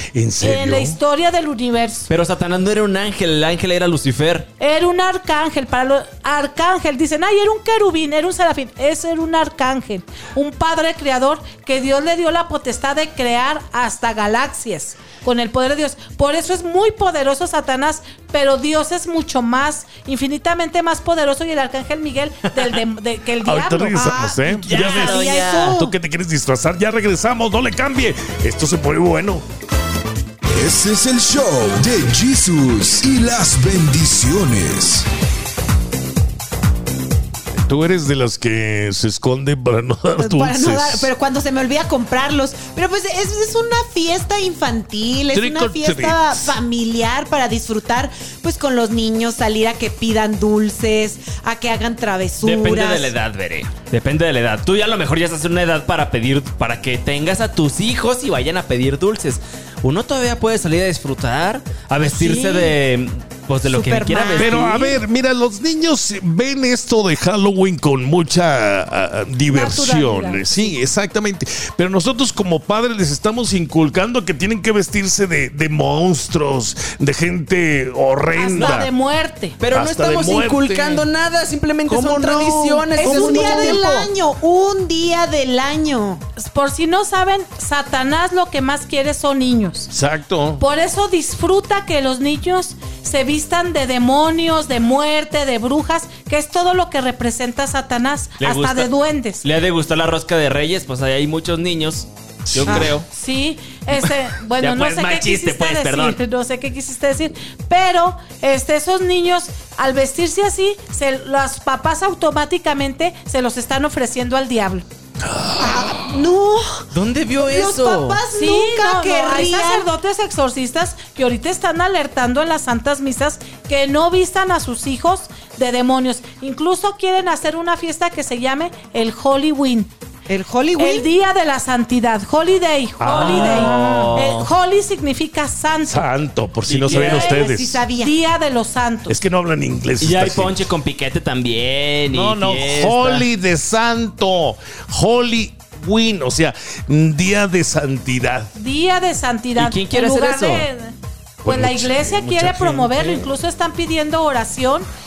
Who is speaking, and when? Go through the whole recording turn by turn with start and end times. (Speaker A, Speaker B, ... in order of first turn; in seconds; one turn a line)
Speaker A: 0.1-1.0
Speaker B: 0.4-2.1
Speaker C: 2.1-4.5
Speaker B: 4.6-24.2
Speaker A: 23.5-25.1
Speaker D: 23.9-26.0
Speaker C: 24.5-25.8
Speaker A: 25.8-29.4
Speaker E: 30.5-35.1
Speaker A: 37.6-41.1
Speaker D: 40.2-53.1
Speaker A: 45.3-46.6
Speaker C: 52.4-64.8
Speaker D: 62.1-62.8
Speaker D: 63.6-65.0
Speaker A: 64.4-78.9
Speaker B: 69.5-70.8
Speaker B: 78.3-79.6
Speaker C: 78.5-78.8
Speaker C: 79.6-84.1
Speaker A: 79.7-81.1
Speaker A: 81.9-83.7
Speaker D: 82.9-86.2
Speaker B: 83.1-83.6
Speaker B: 86.4-89.9
Speaker A: 89.9-90.6
Speaker B: 90.6-99.5
Speaker C: 98.4-98.9
Speaker C: 99.4-103.1
Speaker A: 102.5-102.9
Speaker D: 102.7-102.9
Speaker B: 103.0-114.9
Speaker C: 104.0-106.2
Speaker A: 115.3-116.1
Speaker D: 115.6-119.9
Speaker C: 116.9-118.2
Speaker B: 118.3-129.9
Speaker D: 130.3-131.1
Speaker B: 130.8-136.1
Speaker A: 133.0-134.0
Speaker C: 133.1-134.5
Speaker A: 135.9-137.8
Speaker C: 136.7-137.4
Speaker B: 136.9-139.2
Speaker D: 136.9-138.2
Speaker A: 139.1-140.5
Speaker C: 140.0-143.3
Speaker A: 142.1-148.5
Speaker B: 148.6-150.9
Speaker C: 149.6-150.7
Speaker A: 151.4-153.3
Speaker B: 151.4-154.9